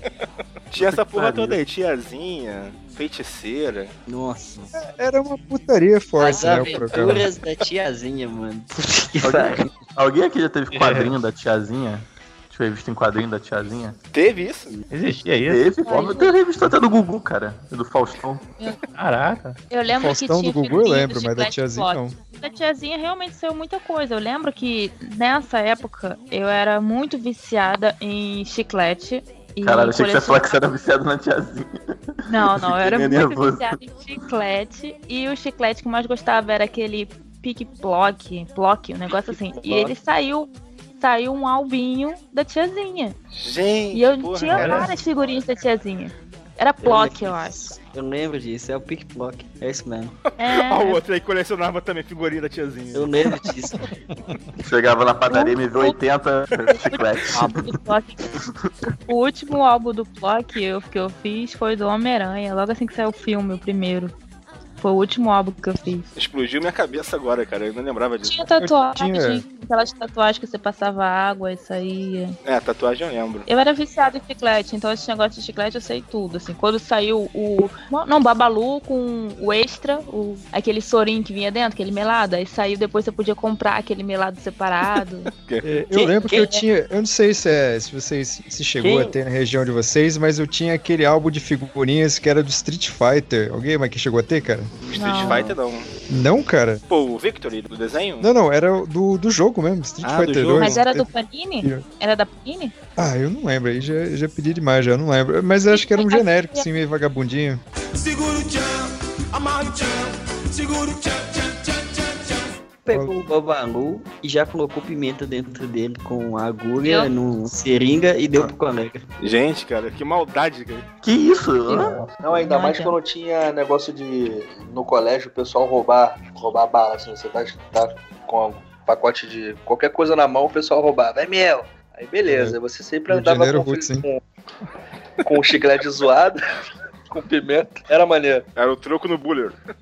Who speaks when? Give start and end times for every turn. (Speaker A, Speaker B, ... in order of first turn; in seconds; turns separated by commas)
Speaker A: 0.7-3.9, Speaker B: 0.8-1.6, Speaker C: 4.1-4.7, Speaker D: 4.8-7.3, Speaker C: 6.2-9.7, Speaker E: 6.4-6.8, Speaker B: 9.2-13.9, Speaker F: 10.7-11.2, Speaker A: 14.1-14.7, Speaker F: 14.9-15.7, Speaker B: 15.5-18.4, Speaker E: 15.8-16.4, Speaker F: 18.9-19.6, Speaker E: 19.7-30.5, Speaker D: 19.9-22.2, Speaker B: 29.6-31.8, Speaker E: 32.3-43.1, Speaker B: 32.4-33.8, Speaker C: 39.6-39.9, Speaker A: 43.4-44.9, Speaker E: 43.9-47.6, Speaker F: 44.5-44.9, Speaker C: 46.8-50.1, Speaker E: 50.4-51.0, Speaker A: 50.5-53.1, Speaker C: 52.9-53.8, Speaker B: 54.6-57.5, Speaker E: 55.3-56.0, Speaker E: 56.8-58.3, Speaker E: 59.0-64.1, Speaker E: 64.8-66.0, Speaker A: 66.2-68.5, Speaker E: 68.2-72.3, Speaker D: 68.6-69.4, Speaker A: 72.4-73.5, Speaker E: 73.5-85.3, Speaker A: 85.3-85.6, Speaker D: 85.6-95.5, Speaker C: 85.9-86.4, Speaker E: 86.2-86.6, Speaker C: 88.8-89.2, Speaker A: 94.9-95.9, Speaker E: 94.9-95.4, Speaker D: 96.1-96.8, Speaker A: 96.9-98.3, Speaker D: 98.2-101.1, Speaker A: 100.0-100.8, Speaker E: 100.6-102.7, Speaker D: 103.0-107.6, Speaker E: 105.7-106.7, Speaker G: 108.0-112.5, Speaker C: 112.8-119.0, Speaker E: 116.8-117.1, Speaker A: 119.2-120.8, Speaker B: 121.0-122.0, Speaker E: 121.7-122.9, Speaker F: 121.7-122.1, Speaker H: 122.2-134.2, Speaker D: 132.3-132.6, Speaker D: 133.1-134.1, Speaker H: 135.2-136.4, Speaker H: 137.1-138.4, Speaker A: 138.6-139.6